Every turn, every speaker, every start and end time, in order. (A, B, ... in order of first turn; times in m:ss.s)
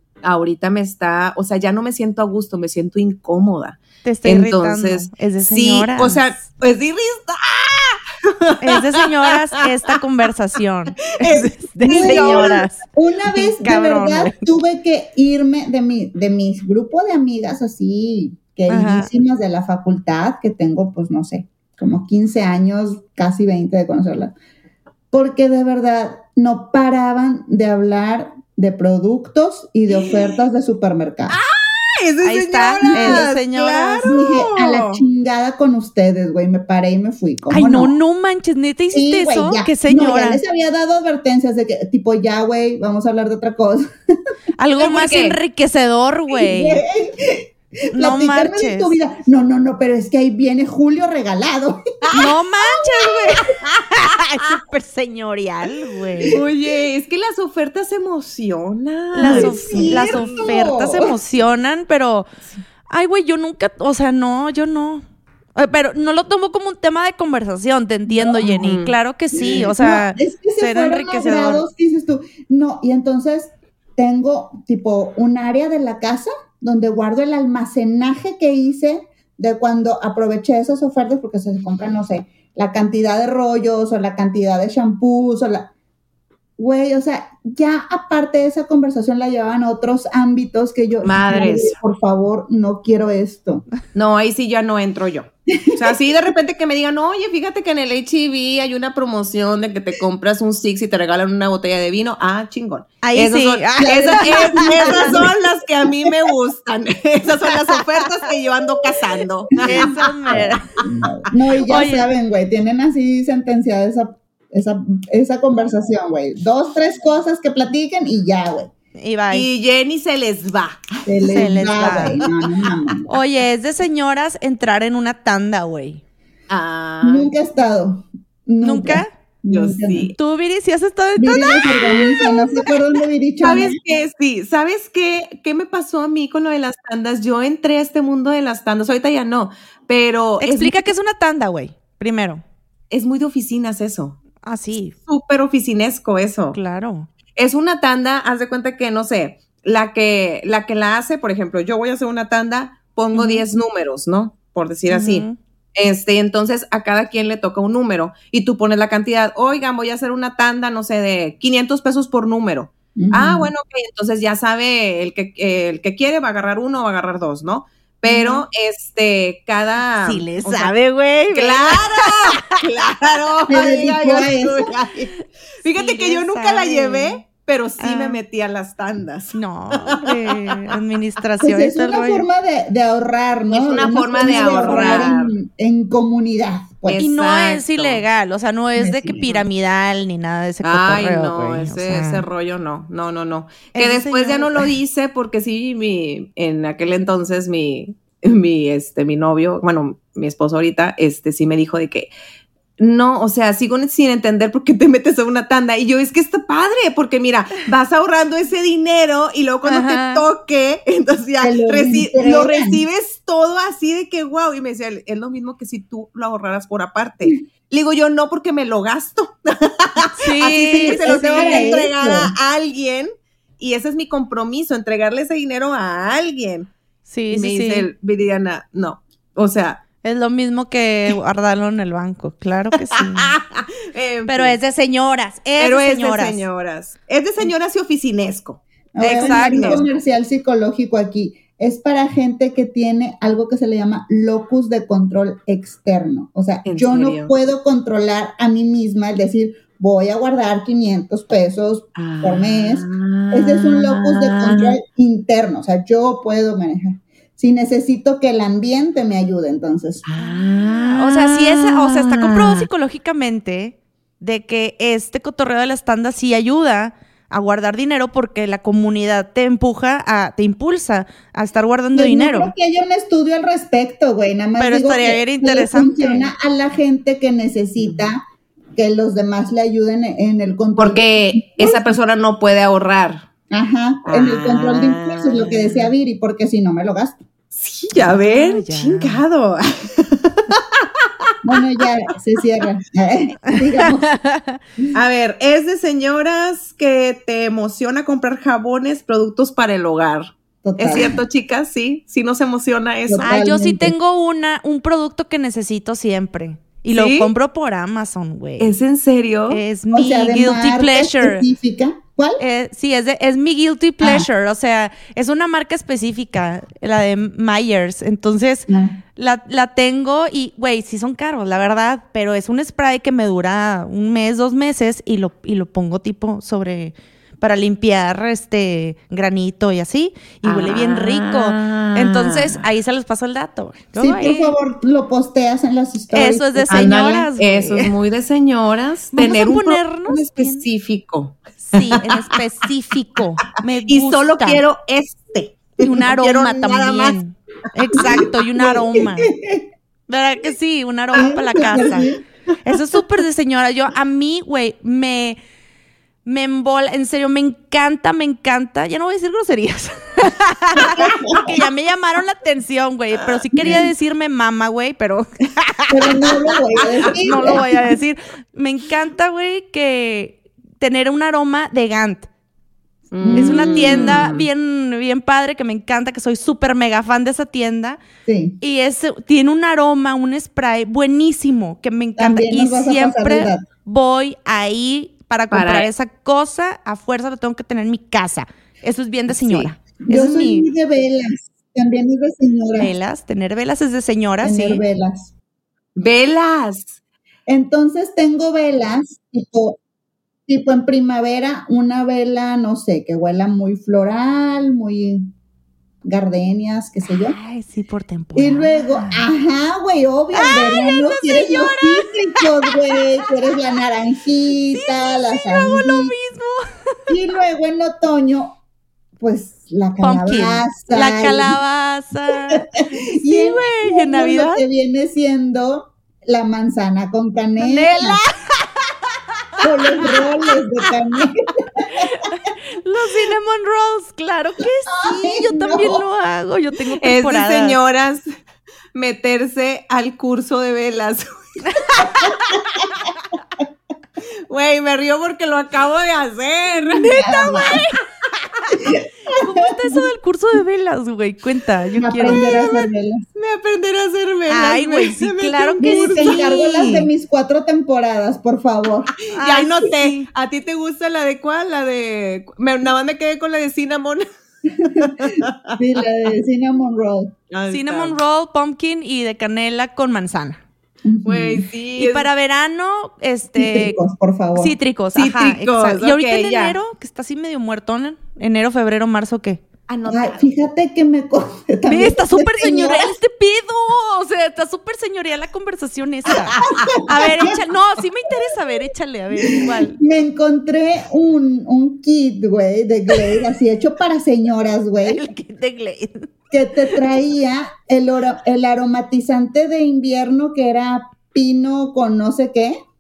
0:00.2-0:09.6 A
0:04.0-0:06.4 B
0:08.6-0:12.8 B
0:11.2-0:12.6 A
0:11.8-0:24.4 C
0:13.3-0:14.4 B
0:18.7-0:19.1 B
0:25.1-0:31.4 C
0:29.9-0:30.3 A
0:31.3-0:35.0 A
0:32.2-0:34.1 B
0:32.9-0:33.3 C
0:34.0-0:38.0 C
0:37.5-0:40.4 B
0:38.9-0:43.9 C
0:44.6-0:46.8 B
0:44.8-0:45.4 A
0:46.3-0:52.2 C
0:47.9-0:49.0 B
0:52.1-0:56.4 B
0:56.3-1:00.2 A
0:59.2-1:02.3 B
0:59.2-1:01.1 C
1:02.9-1:05.0 B
1:05.6-1:11.6 B
1:08.1-1:08.6 C
1:08.6-1:08.9 A
1:09.4-1:25.7 C
1:26.6-1:33.7 C
1:31.0-1:31.8 A
1:33.9-1:50.4 A
1:35.5-1:35.9 C
1:43.0-1:45.2 B
1:43.8-1:45.4 C
1:49.6-1:58.7 C
1:49.6-1:50.7 B
1:51.7-1:52.1 B
1:59.0-1:59.5 B
1:59.3-2:01.4 A
2:01.1-2:03.1 C
2:01.3-2:02.2 B
2:03.1-2:06.0 B
2:06.5-2:07.3 A
2:07.0-2:10.1 C
2:08.6-2:09.1 B
2:09.5-2:10.1 A
2:10.2-2:12.2 B
2:11.2-2:13.8 C
2:13.4-2:20.9 A
2:20.4-2:22.4 B
2:22.9-2:24.2 A
2:24.4-2:25.0 B
2:25.1-2:26.6 A
2:26.5-2:27.1 B
2:27.4-2:50.7 A
2:33.2-2:33.4 B
2:34.9-2:35.4 B
2:43.0-2:43.5 C
2:48.0-2:48.5 B
2:50.0-2:52.5 B
2:51.3-2:55.1 A
2:53.5-2:54.7 C
2:55.6-3:00.3 A
2:55.7-2:57.2 B
2:57.8-2:58.2 B
2:59.4-3:02.3 B
3:01.4-3:07.0 C
3:03.5-3:05.3 A
3:04.3-3:05.1 B
3:06.8-3:08.0 A
3:07.0-3:12.2 B
3:08.8-3:09.3 C
3:10.6-3:22.1 A
3:13.8-3:14.7 B
3:22.8-3:46.7 A
3:29.6-3:30.2 B
3:31.4-3:32.8 C
3:40.2-3:41.8 B
3:40.7-3:42.3 C
3:47.1-3:47.9 B
3:47.3-3:49.8 A
3:50.0-3:53.4 B
3:52.9-3:54.6 A
3:54.3-3:56.5 B
3:55.6-3:59.8 A
3:59.0-4:20.0 C
3:59.0-3:59.8 B
4:06.6-4:07.3 A
4:12.0-4:14.8 A
4:20.1-4:22.7 A
4:20.2-4:32.5 B
4:32.0-4:38.2 C
4:34.6-4:36.3 B
4:38.8-4:41.9 C
4:40.8-4:43.3 A
4:43.5-4:47.2 C
4:44.0-4:45.9 A
4:47.6-4:51.0 A
4:47.9-4:49.2 B
4:51.4-4:54.1 C
4:54.1-4:54.6 B
4:54.9-5:03.4 A
5:00.6-5:01.2 C
5:03.1-5:04.0 C
5:03.2-5:08.8 B
5:06.9-5:07.3 A
5:08.6-5:09.6 A
5:09.5-5:11.4 B
5:09.9-5:12.4 C
5:12.4-5:34.6 B
5:14.0-5:14.3 C
5:18.7-5:19.0 C
5:30.4-5:32.6 A
5:34.0-5:37.3 C
5:36.1-5:37.9 B
5:37.4-5:42.4 A
5:39.1-5:40.7 B
5:41.6-5:44.6 B
5:43.9-5:47.2 A
5:45.8-5:49.3 B
5:48.0-5:48.3 A
5:48.1-5:49.7 C
5:50.1-5:52.1 B
5:51.1-5:52.2 C
5:52.6-5:55.4 B
5:56.3-6:06.3 B
6:00.8-6:01.6 C
6:03.6-6:03.9 C
6:05.9-6:07.9 C
6:07.2-6:12.3 B
6:13.1-6:14.5 A
6:13.2-6:14.3 C
6:13.4-6:18.0 B
6:18.3-6:18.6 C
6:18.6-6:30.7 B
6:22.2-6:23.7 C
6:25.5-6:25.9 A
6:29.3-6:29.7 A
6:30.0-6:32.9 C
6:32.8-6:34.8 B
6:34.4-6:35.3 C
6:36.0-6:37.0 A
6:37.5-6:39.8 C
6:40.5-6:45.3 C
6:46.0-6:47.4 C
6:47.2-6:49.3 B
6:48.4-6:56.2 C
6:50.3-6:52.7 B
6:54.7-6:57.0 B
6:57.1-6:58.6 C
6:59.2-7:01.6 C
7:00.0-7:04.6 B
7:02.5-7:08.2 C
7:07.6-7:08.7 B
7:09.6-7:10.2 B
7:09.6-7:12.1 C
7:12.0-7:17.8 B
7:14.9-7:16.0 C
7:17.0-7:18.3 A
7:19.0-7:22.1 A
7:21.7-7:22.4 B
7:24.5-7:27.3 A
7:27.0-7:28.0 B
7:27.0-7:27.8 C
7:28.8-7:30.0 C
7:29.3-7:32.6 B
7:32.0-7:33.2 C
7:32.3-7:32.7 A
7:33.4-7:36.4 A
7:34.5-7:37.1 B
7:35.8-7:39.1 C
7:39.3-7:44.3 A
7:39.3-7:40.3 B
7:44.8-7:47.4 C
7:44.8-7:45.8 A
7:47.5-7:48.2 A
7:47.7-7:50.6 B
7:51.0-7:51.6 C
7:51.2-7:52.3 A
7:52.0-7:54.0 B
7:53.6-7:54.8 C
7:54.6-7:59.6 B
7:55.1-7:56.8 A
7:59.9-8:00.5 A
8:00.1-8:03.1 C
8:01.9-8:10.0 B
8:06.6-8:06.9 A
8:07.0-8:07.5 C
8:09.4-8:15.3 C
8:15.1-8:16.3 B
8:16.5-8:22.8 C